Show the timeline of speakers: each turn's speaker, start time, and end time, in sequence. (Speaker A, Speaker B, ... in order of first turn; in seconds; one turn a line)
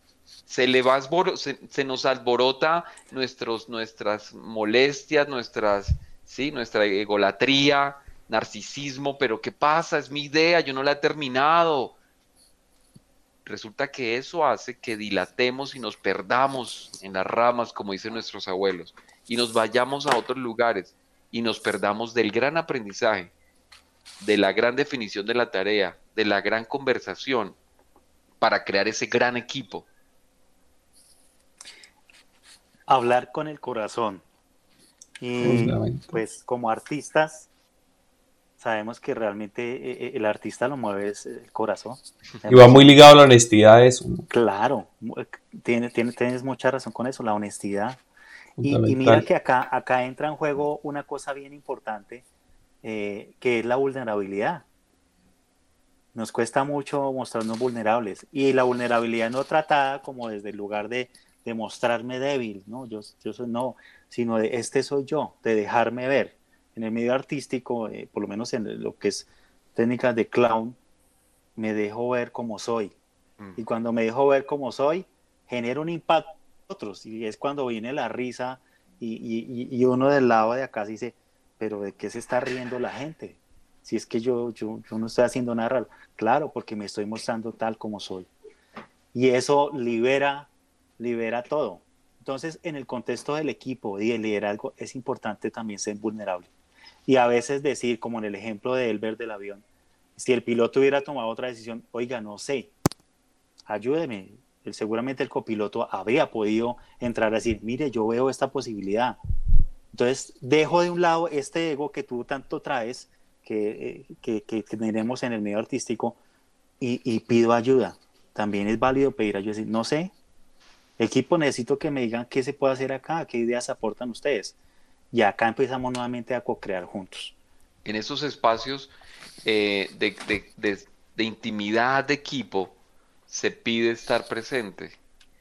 Speaker A: 0.5-11.9
Speaker A: 13.4-23.3
Speaker A: 24.2-27.6
Speaker A: 28.4-29.9
Speaker B: 32.9-34.2
Speaker B: 35.2-37.5
Speaker C: 35.4-36.2
Speaker B: 38.6-42.9
Speaker C: 42.5-44.3
Speaker B: 44.3-48.0
Speaker C: 48.6-49.2
Speaker B: 48.6-52.2
Speaker B: 52.8-54.6
Speaker B: 56.1-70.8
Speaker B: 71.5-72.9
Speaker B: 73.6-88.3
Speaker B: 89.1-96.5
Speaker B: 97.1-99.6
Speaker B: 100.2-102.7
Speaker B: 103.7-109.2
Speaker B: 109.9-116.2
Speaker B: 116.8-120.1
Speaker B: 121.0-124.5
Speaker B: 125.1-127.3
Speaker A: 127.8-128.9
Speaker A: 129.4-135.0